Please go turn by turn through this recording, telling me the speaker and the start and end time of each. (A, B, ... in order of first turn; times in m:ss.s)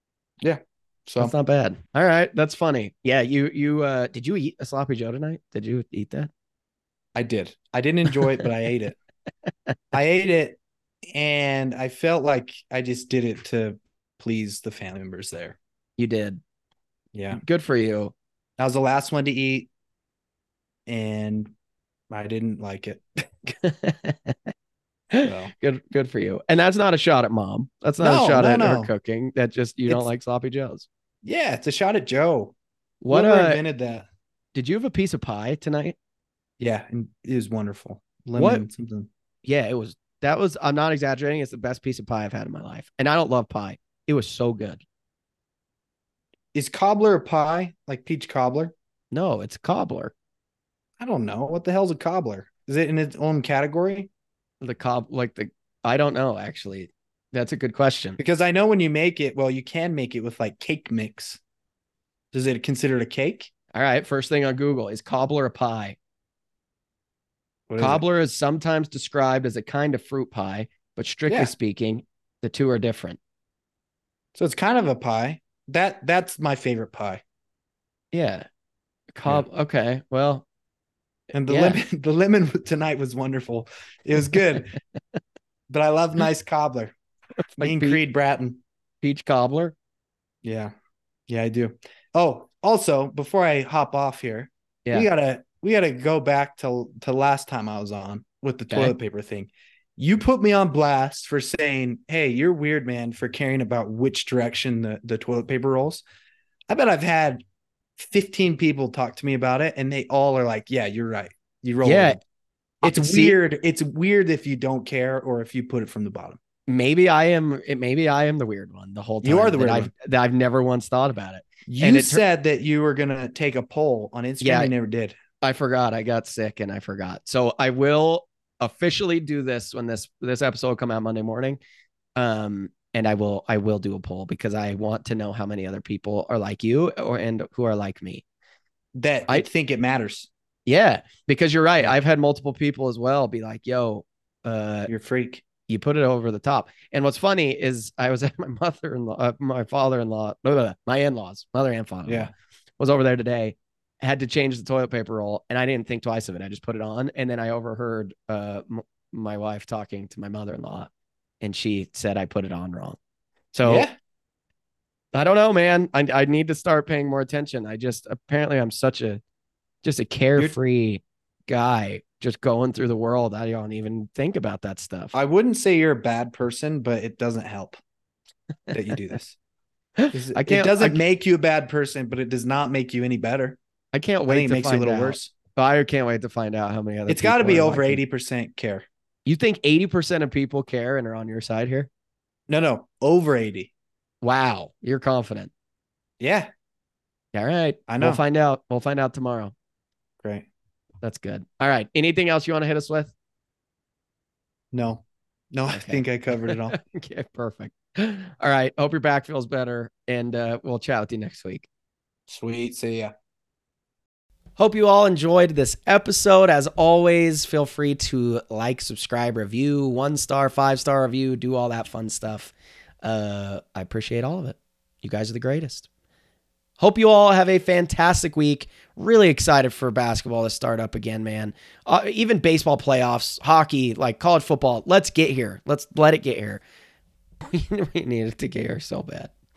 0:00.4-0:01.3 A
0:01.2-0:06.3 B
0:07.1-0:09.0 A
0:09.9-0:10.6 A
0:11.1-0:15.6 A
0:16.0-0:16.4 B
0:17.1-0:17.4 A
0:17.3-0:18.1 B
0:18.6-0:19.7 A
0:20.9-0:21.5 A
0:22.1-0:23.0 A
0:23.4-0:24.5 B
0:25.1-0:30.8 B
0:25.2-0:25.5 A
0:28.0-0:28.9 A
0:31.2-0:32.5 A
0:33.0-0:33.6 B
0:33.1-0:34.1 A
0:34.5-0:36.0 B
0:36.6-0:39.1 A
0:38.4-0:38.6 B
0:39.4-0:44.8 B
0:46.5-0:48.7 A
0:49.1-0:50.1 B
0:51.0-0:54.1 A
0:54.6-0:58.2 B
0:58.2-1:01.4 A
1:02.3-1:03.5 A
1:03.7-1:06.0 B
1:07.7-1:08.0 A
1:07.8-1:13.2 B
1:11.3-1:11.5 A
1:14.3-1:17.2 A
1:18.1-1:18.4 B
1:19.1-1:20.4 B
1:21.3-1:24.7 A
1:21.5-1:21.8 B
1:25.7-1:27.0 A
1:27.6-1:28.0 B
1:27.6-1:28.6 A
1:29.0-1:29.7 B
1:30.4-1:30.7 A
1:31.3-1:46.0 A
1:46.7-1:47.4 A
1:48.0-1:52.2 A
1:51.8-1:52.2 B
1:52.8-1:56.4 A
1:52.8-1:53.4 B
1:56.7-2:02.2 B
1:59.2-1:59.9 A
2:01.7-2:05.2 A
2:04.4-2:04.7 B
2:05.4-2:11.6 B
2:12.2-2:18.2 B
2:19.0-2:20.3 A
2:20.6-2:24.9 B
2:24.9-2:25.4 A
2:25.7-2:40.9 B
2:41.4-2:43.0 B
2:43.5-2:43.9 B
2:43.6-2:43.9 A
2:45.1-2:49.2 B
2:49.8-2:55.2 B
2:55.1-2:57.8 A
2:58.7-2:59.4 A
3:00.0-3:01.0 B
3:00.1-3:03.6 A
3:03.9-3:08.0 B
3:04.3-3:05.3 A
3:07.1-3:08.8 A
3:09.2-3:11.9 B
3:12.5-3:13.7 A
3:14.2-3:15.5 B
3:16.2-3:16.5 A
3:17.3-3:19.5 B
3:17.9-3:18.2 A
3:21.0-3:23.1 B
3:24.7-3:26.8 A
3:25.7-3:31.7 B
3:32.3-3:33.1 A
3:34.6-3:45.9 B
3:46.8-3:56.6 B
3:57.4-3:59.3 B